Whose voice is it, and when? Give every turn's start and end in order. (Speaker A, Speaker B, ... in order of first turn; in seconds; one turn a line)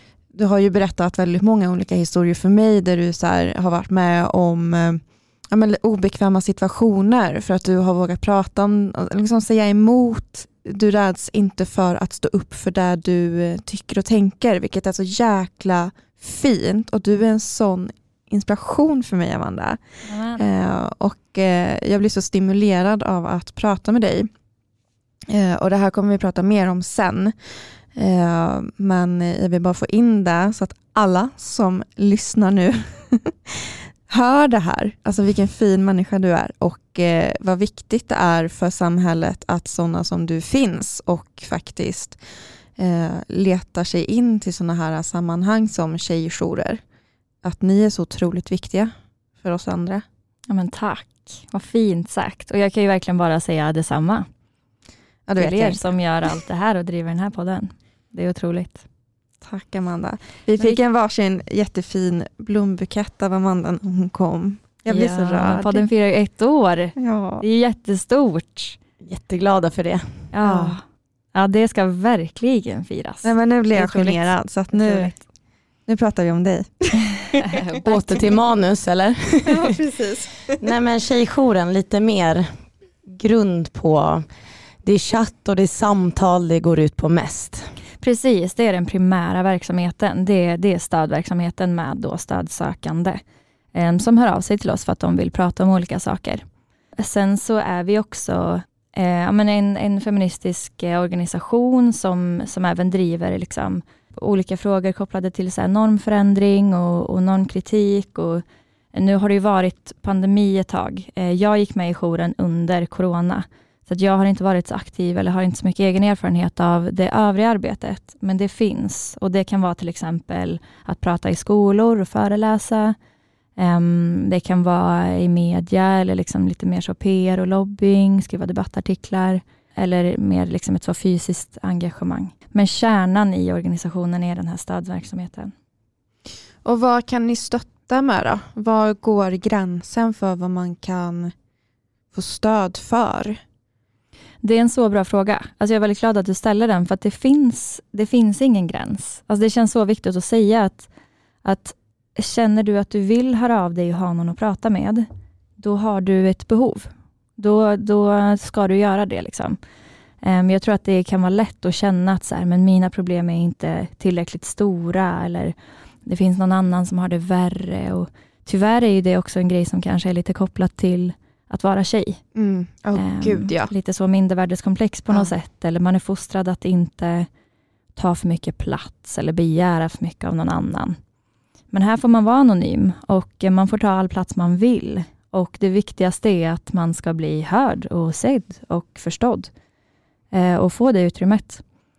Speaker A: 0.3-19.8
Speaker B: 20.0-20.4
Speaker A: 20.4-24.3
Speaker A: 25.3-27.3
Speaker A: 27.9-42.2
Speaker A: 42.8-46.8
Speaker A: 47.4-50.0
Speaker B: 50.5-54.3
Speaker A: 55.3-55.8
Speaker B: 55.4-58.8
Speaker A: 59.4-65.8
Speaker B: 64.9-68.8
Speaker A: 67.0-67.4
Speaker C: 69.0-70.0
Speaker B: 70.3-70.8
Speaker A: 70.4-70.8
Speaker B: 71.3-75.1
Speaker A: 73.2-75.2
Speaker A: 75.9-77.6
Speaker B: 77.3-78.2
Speaker C: 77.8-79.8
Speaker A: 79.5-80.6
Speaker C: 80.6-82.5
Speaker C: 83.0-84.2
Speaker C: 84.8-87.7
Speaker B: 88.0-93.2
Speaker B: 93.7-96.4
Speaker B: 97.0-123.0
Speaker B: 123.6-135.5
Speaker A: 136.6-141.3
Speaker A: 142.1-143.4
Speaker B: 144.4-150.9
Speaker B: 151.4-155.1
Speaker B: 155.6-159.6
Speaker B: 160.2-165.5
Speaker B: 166.1-172.2
Speaker A: 172.3-173.7
Speaker B: 172.9-177.3
Speaker B: 177.9-181.0
Speaker B: 181.7-189.5
Speaker B: 190.3-191.6